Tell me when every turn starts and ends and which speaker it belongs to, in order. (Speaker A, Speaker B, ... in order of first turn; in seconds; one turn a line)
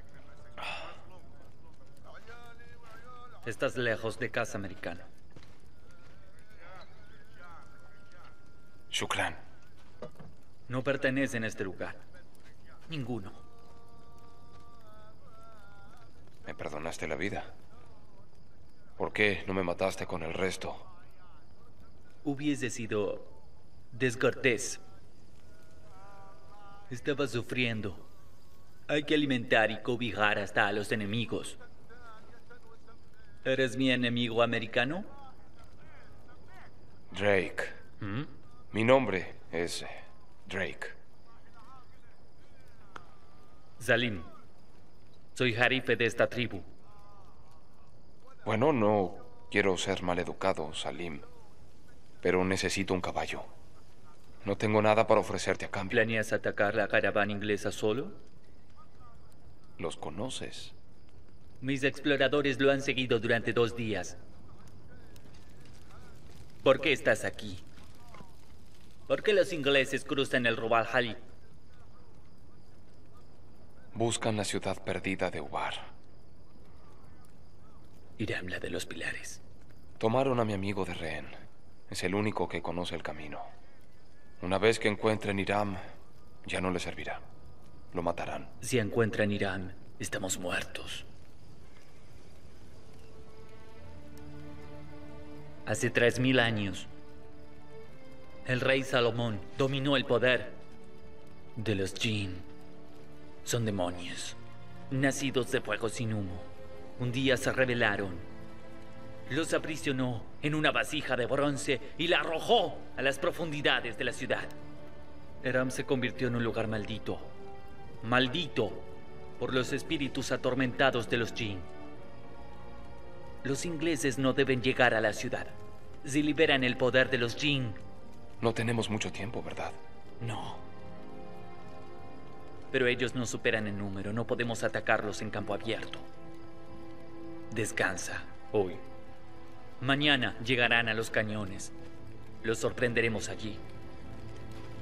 Speaker A: 3.4-5.1
Speaker B: 8.9-9.4
Speaker A: 10.7-12.0
Speaker A: 12.9-13.4
Speaker B: 16.4-17.5
Speaker B: 19.0-20.9
Speaker A: 22.2-23.3
Speaker A: 23.9-24.8
Speaker A: 26.9-28.1
Speaker A: 28.9-31.6
Speaker A: 33.4-35.1
Speaker B: 37.1-37.8
Speaker A: 38.0-38.3
Speaker B: 38.7-41.0
Speaker A: 43.8-44.3
Speaker A: 45.3-46.7
Speaker B: 48.4-51.2
Speaker B: 52.2-53.5
Speaker B: 54.4-56.0
Speaker A: 55.9-58.2
Speaker B: 59.8-60.7
Speaker A: 61.6-64.2
Speaker A: 66.6-67.6
Speaker A: 69.1-71.2
Speaker B: 73.9-75.9
Speaker A: 78.2-79.4
Speaker B: 80.0-81.4
Speaker B: 81.9-83.5
Speaker B: 84.4-85.8
Speaker B: 86.4-87.2
Speaker B: 87.9-88.5
Speaker A: 88.6-91.0
Speaker A: 95.7-96.9
Speaker A: 98.4-100.6
Speaker A: 101.5-102.5
Speaker A: 103.4-104.4
Speaker A: 104.9-108.3
Speaker A: 109.3-114.5
Speaker A: 115.4-117.3
Speaker A: 118.0-118.9
Speaker A: 119.4-121.7
Speaker A: 123.4-127.8
Speaker B: 128.4-129.8
Speaker A: 130.2-130.6
Speaker A: 132.7-136.1
Speaker A: 137.5-138.8
Speaker A: 139.8-141.7
Speaker A: 142.4-143.6